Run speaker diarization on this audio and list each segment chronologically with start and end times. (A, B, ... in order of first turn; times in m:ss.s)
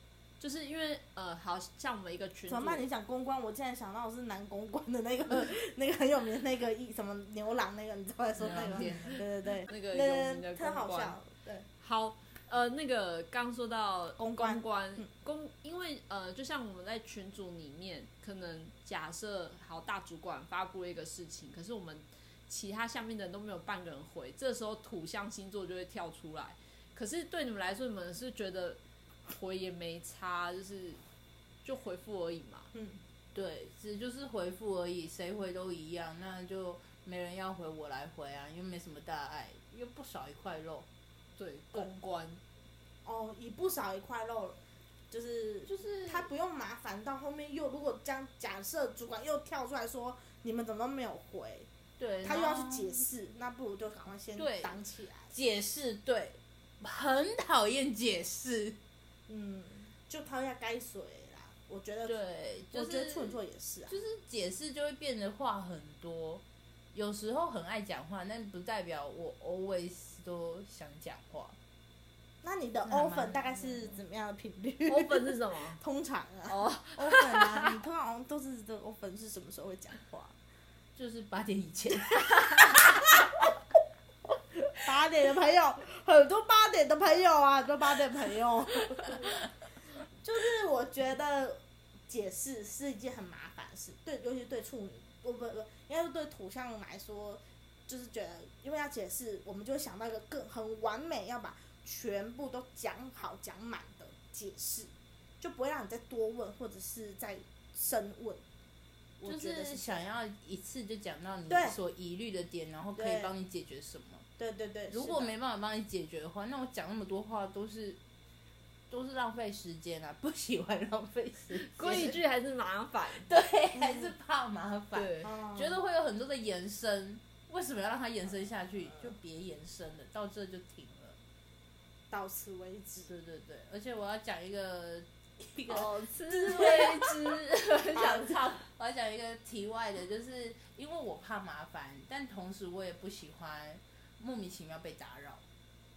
0:00.4-0:02.9 A
0:02.5-0:11.7 B
0:08.4-0:09.2 C
0:08.8-0:11.2 A
0:11.8-0:31.0 A
0:14.2-0:15.0 B
0:31.6-0:32.7 A
0:32.7-0:33.0 B
0:33.3-0:40.9 C
0:41.4-0:42.4 A
0:43.0-0:44.6 B
0:45.1-0:51.7 B
0:45.7-0:46.3 C
0:52.0-0:53.0 C
0:52.2-0:55.3 B
0:54.4-0:54.8 C
0:55.3-0:58.8 C
0:59.3-1:02.2 B
1:02.1-1:03.4 C
1:02.7-1:04.0 B
1:03.9-1:11.6 C
1:12.4-1:20.3 B
1:12.9-1:14.0 C
1:14.9-1:15.8 A
1:16.5-1:17.7 A
1:21.0-1:23.3 C
1:24.8-1:29.4 B
1:30.2-1:48.4 B
1:49.2-1:50.0 B
1:49.2-1:54.3 C
1:51.5-1:51.8 B
1:53.0-1:53.3 B
1:54.4-1:55.3 B
1:54.9-1:58.0 C
1:58.9-2:02.2 C
2:01.6-2:03.3 A
2:03.1-2:11.2 C
2:05.0-2:05.3 A
2:05.2-2:05.8 B
2:12.1-2:13.1 B
2:13.1-2:17.3 C
2:15.7-2:18.6 A
2:17.9-2:25.4 C